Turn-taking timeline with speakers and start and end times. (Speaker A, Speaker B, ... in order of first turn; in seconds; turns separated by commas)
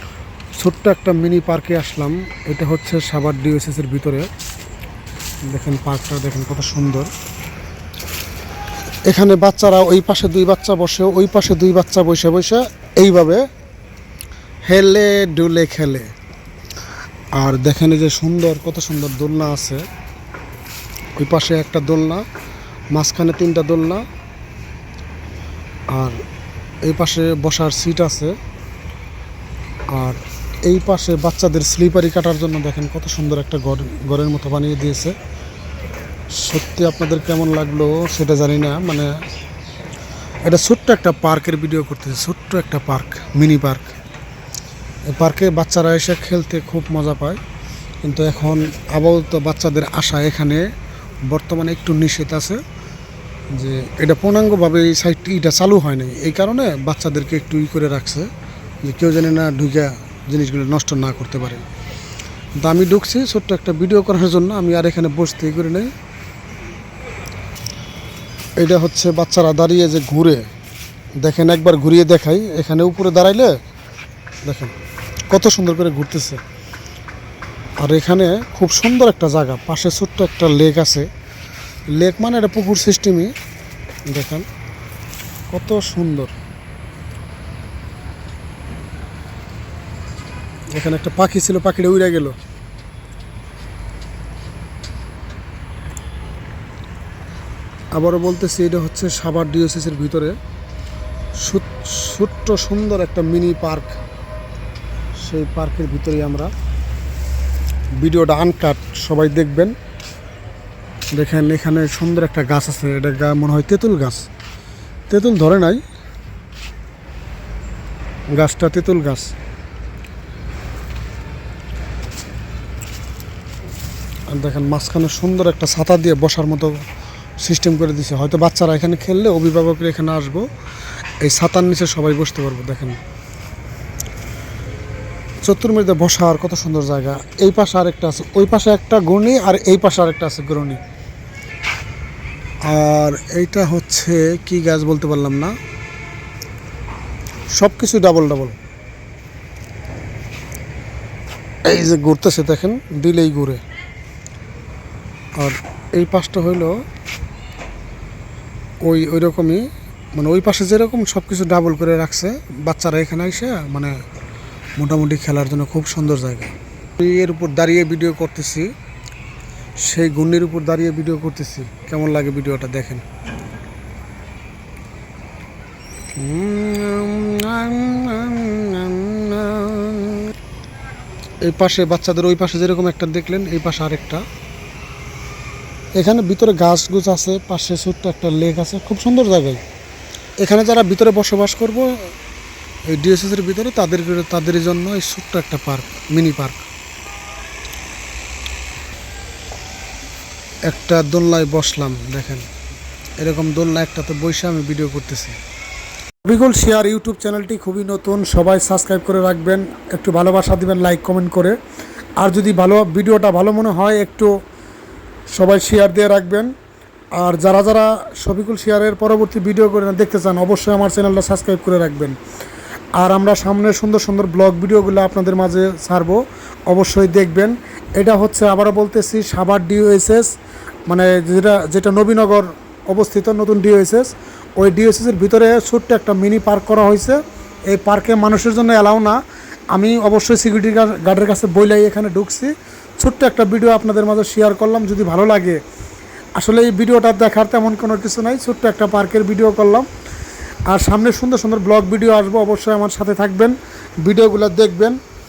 Speaker A: 0.6-4.3, Speaker A: 5.5-7.1, Speaker A: 9.1-13.4, Speaker A: 14.7-16.1, Speaker A: 17.4-19.8, Speaker A: 21.2-22.2, Speaker A: 22.9-24.0, Speaker A: 25.9-26.2, Speaker A: 26.9-28.4, Speaker A: 29.9-35.1, Speaker A: 36.4-39.1, Speaker A: 40.5-44.0, Speaker A: 45.1-47.4, Speaker A: 48.0-50.7, Speaker A: 51.3-52.6, Speaker A: 53.5-58.3, Speaker A: 58.8-61.6, Speaker A: 62.6-65.9, Speaker A: 68.6-70.5, Speaker A: 71.2-73.5, Speaker A: 74.5-74.7, Speaker A: 75.3-76.4, Speaker A: 77.8-81.1, Speaker A: 82.0-83.3, Speaker A: 84.1-84.5, Speaker A: 85.5-86.3, Speaker A: 90.7-92.3, Speaker A: 98.0-100.3, Speaker A: 101.4-104.0, Speaker A: 105.2-106.5, Speaker A: 108.0-109.7, Speaker A: 111.2-114.3, Speaker A: 115.1-115.8, Speaker A: 118.3-119.3, Speaker A: 124.3-126.8, Speaker A: 127.4-130.5, Speaker A: 131.2-133.0, Speaker A: 135.4-140.8, Speaker A: 142.7-145.6, Speaker A: 147.6-148.6, Speaker A: 151.7-153.6, Speaker A: 155.4-156.8, Speaker A: 158.8-164.0, Speaker A: 164.8-168.7, Speaker A: 169.8-173.1, Speaker A: 176.2-180.3, Speaker A: 181.4-184.2, Speaker A: 186.0-189.6, Speaker A: 190.4-191.9, Speaker A: 192.9-196.7, Speaker A: 200.7-202.5, Speaker A: 203.2-205.4, Speaker A: 206.2-211.6, Speaker A: 212.2-214.3, Speaker A: 215.3-216.5, Speaker A: 217.2-222.2, Speaker A: 223.0-230.3, Speaker A: 230.9-239.2, Speaker A: 239.7-245.6, Speaker A: 246.4-249.9, Speaker A: 250.7-255.0